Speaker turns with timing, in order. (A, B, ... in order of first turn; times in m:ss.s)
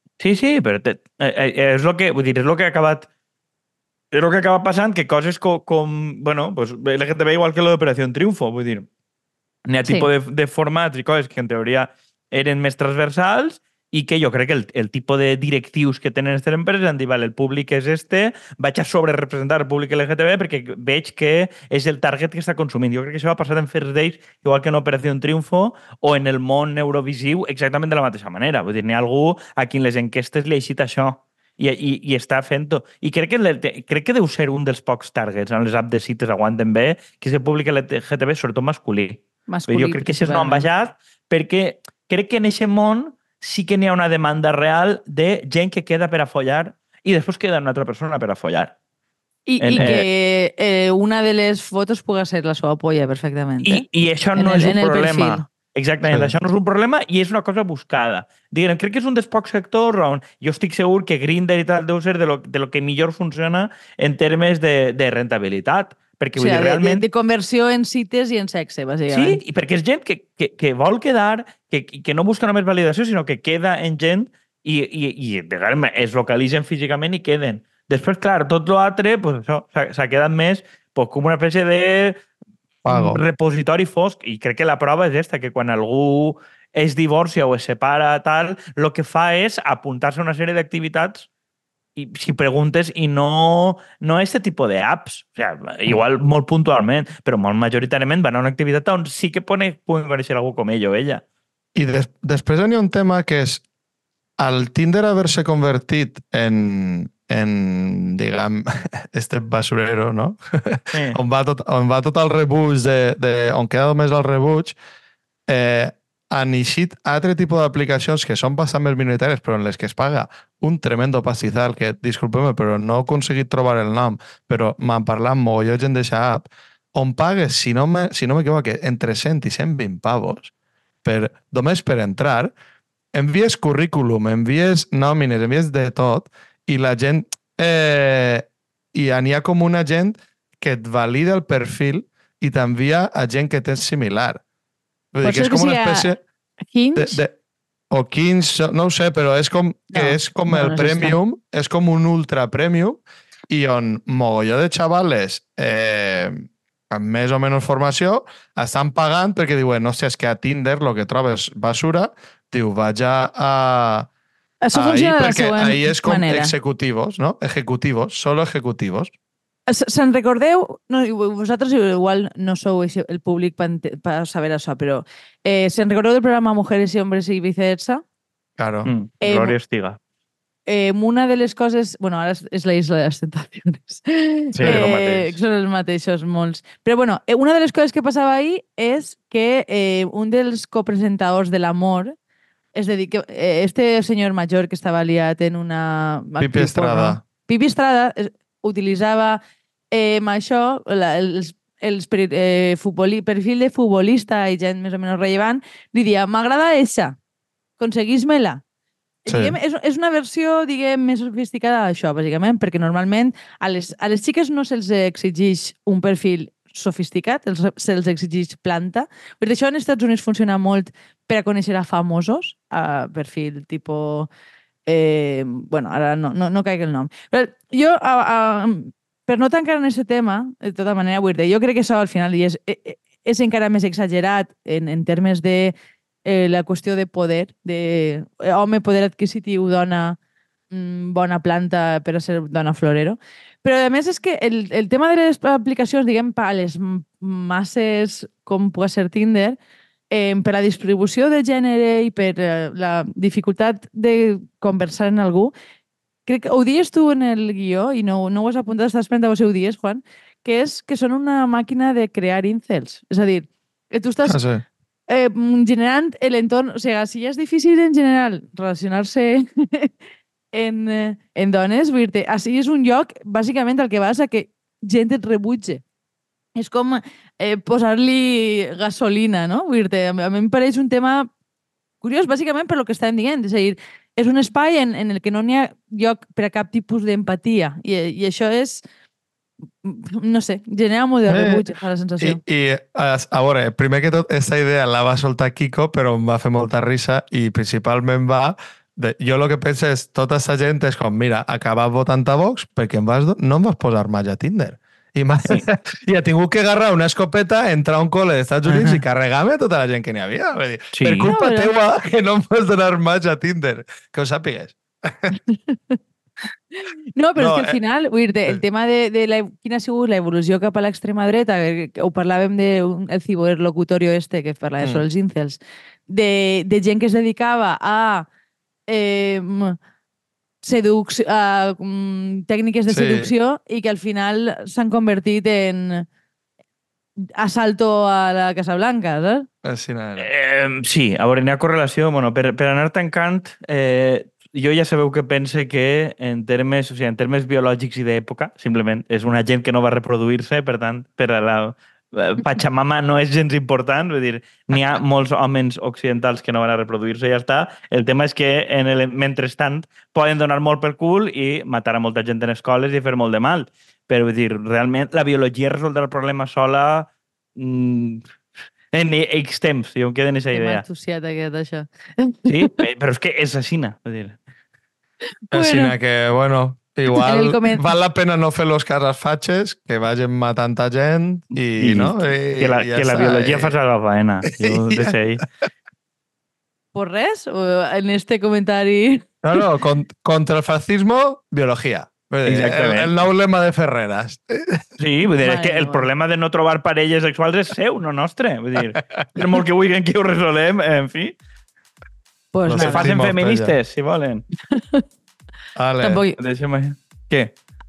0:00.2-0:03.1 A
0:04.1-0:08.9 A
0:09.7-0:48.7 A
0:39.5-0:40.6 B
0:49.5-0:53.8 B
0:49.6-0:50.0 A
0:53.6-1:07.0 A
0:54.4-0:55.4 B
0:56.0-0:56.4 C
1:06.4-1:09.4 B
1:09.1-1:22.2 A
1:22.8-1:23.2 C
1:22.9-1:31.3 A
1:32.0-1:41.2 A
1:41.7-1:43.6 C
1:44.4-1:54.8 C
1:50.9-1:51.2 A
1:55.5-2:10.5 C
2:11.0-2:12.5 C
2:13.1-2:24.4 C
2:25.1-2:26.2 C
2:25.2-2:26.1 B
2:26.7-2:27.2 B
2:27.0-2:27.3 C
2:27.9-2:44.1 C
2:29.9-2:31.2 B
2:44.6-2:46.5 B
2:44.7-2:49.1 C
2:49.7-2:58.0 B
2:58.6-2:58.9 C
2:58.8-3:00.0 A
2:59.2-2:59.5 B
3:00.7-3:12.1 B
3:04.5-3:04.9 C
3:04.6-3:05.3 A
3:12.7-3:19.4 B
3:16.4-3:17.2 C
3:19.9-3:27.2 B
3:27.8-3:28.6 B
3:29.2-3:44.3 B
3:29.3-3:29.6 C
3:44.8-3:55.7 B
3:56.2-4:00.2 B
4:00.7-4:09.6 B
4:10.1-4:15.5 B
4:16.2-4:24.4 B
4:24.2-4:24.6 C
4:25.1-4:29.9 B
4:30.5-4:35.8 B
4:36.6-4:41.3 B
4:42.0-4:48.8 B
4:49.8-4:52.4 B
4:51.3-4:51.6 C
4:52.2-5:15.3 C
5:08.7-5:09.0 A
5:10.9-5:11.3 A
5:11.2-5:11.7 B
5:15.5-5:16.0 B
5:17.2-5:28.3 B
5:17.4-5:17.8 C
5:24.8-5:25.0 C
5:28.9-5:29.8 B
5:30.6-5:36.0 B
5:32.9-5:33.3 C
5:37.4-5:39.4 B
5:39.6-5:40.3 C
5:40.2-6:08.2 A
6:08.9-6:10.8 A
6:10.5-6:12.7 B
6:12.4-6:14.4 A
6:15.5-6:15.9 B
6:15.5-6:23.7 C
6:17.1-6:17.9 B
6:21.8-6:25.4 A
6:24.5-6:25.1 C
6:26.9-6:29.3 B
6:29.4-6:34.8 C
6:32.4-6:33.2 A
6:35.0-6:41.4 A
6:35.4-6:36.1 B
6:42.5-6:43.1 B
6:42.6-6:43.7 C
6:42.8-6:44.4 A
6:44.7-6:45.0 B
6:45.8-6:46.2 C
6:46.0-6:46.4 B
6:46.4-6:47.5 A